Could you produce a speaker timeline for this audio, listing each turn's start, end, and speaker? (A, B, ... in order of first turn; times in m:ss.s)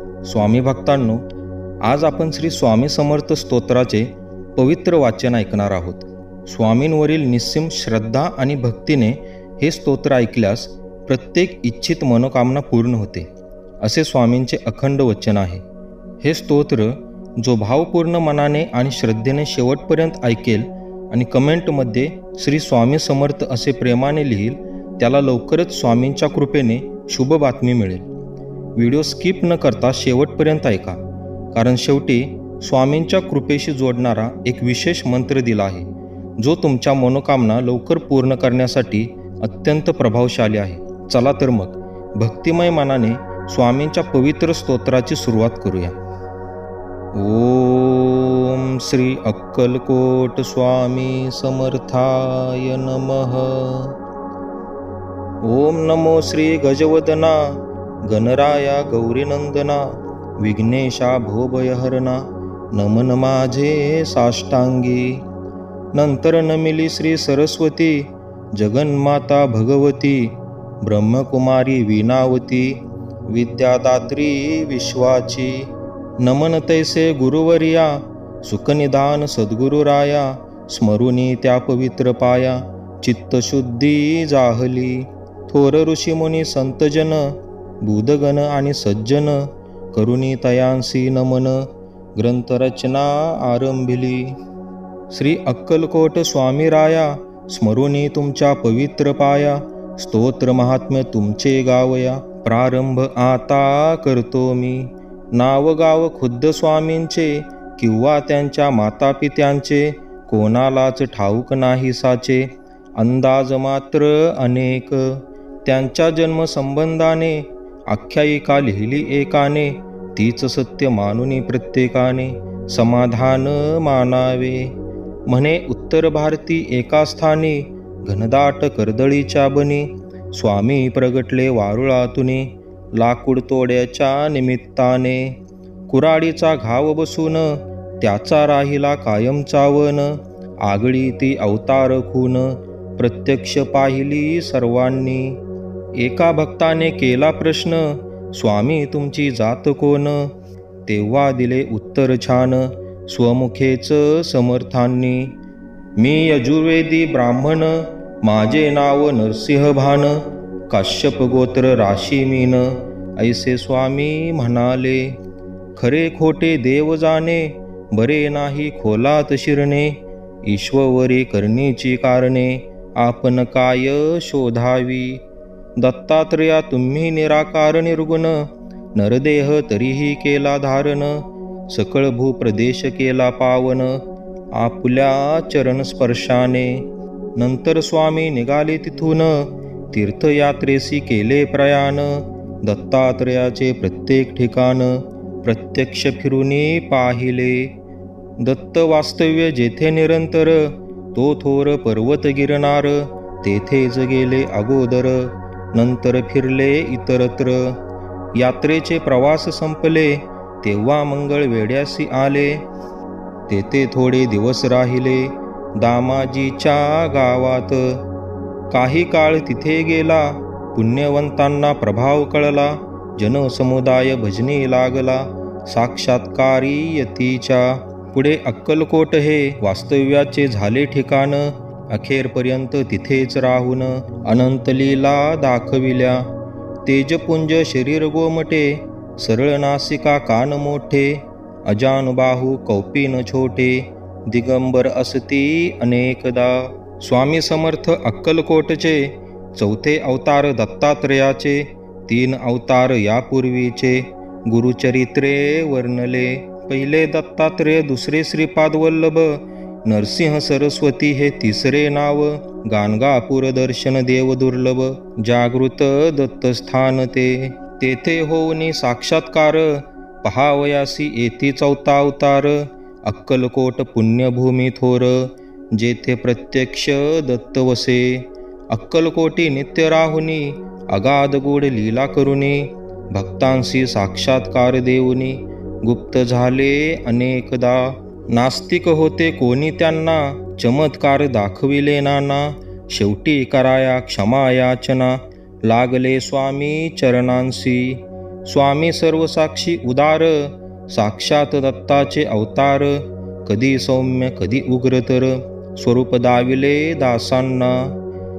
0:00.2-0:01.2 A
0:01.8-0:13.3 A
0:13.8-0:15.6 A
0:16.2-0:28.1 A
0:28.8-0:31.0 A
0:31.5-0:45.9 A
0:47.1-0:53.9 A
0:55.4-1:05.2 A
1:05.9-1:15.7 A
1:16.2-1:34.4 A
1:35.1-2:04.7 A
2:05.3-2:15.4 A
2:15.9-2:25.4 A
2:26.0-2:30.3 A
2:30.8-2:35.3 A
2:36.0-2:45.2 A
2:45.8-2:55.2 A
2:55.8-3:04.0 A
3:04.5-3:06.8 A
3:07.3-3:17.7 A
3:18.4-3:27.8 A
3:28.3-3:32.6 A
3:33.5-3:38.0 A
3:38.7-3:56.3 A
3:56.8-5:07.9 A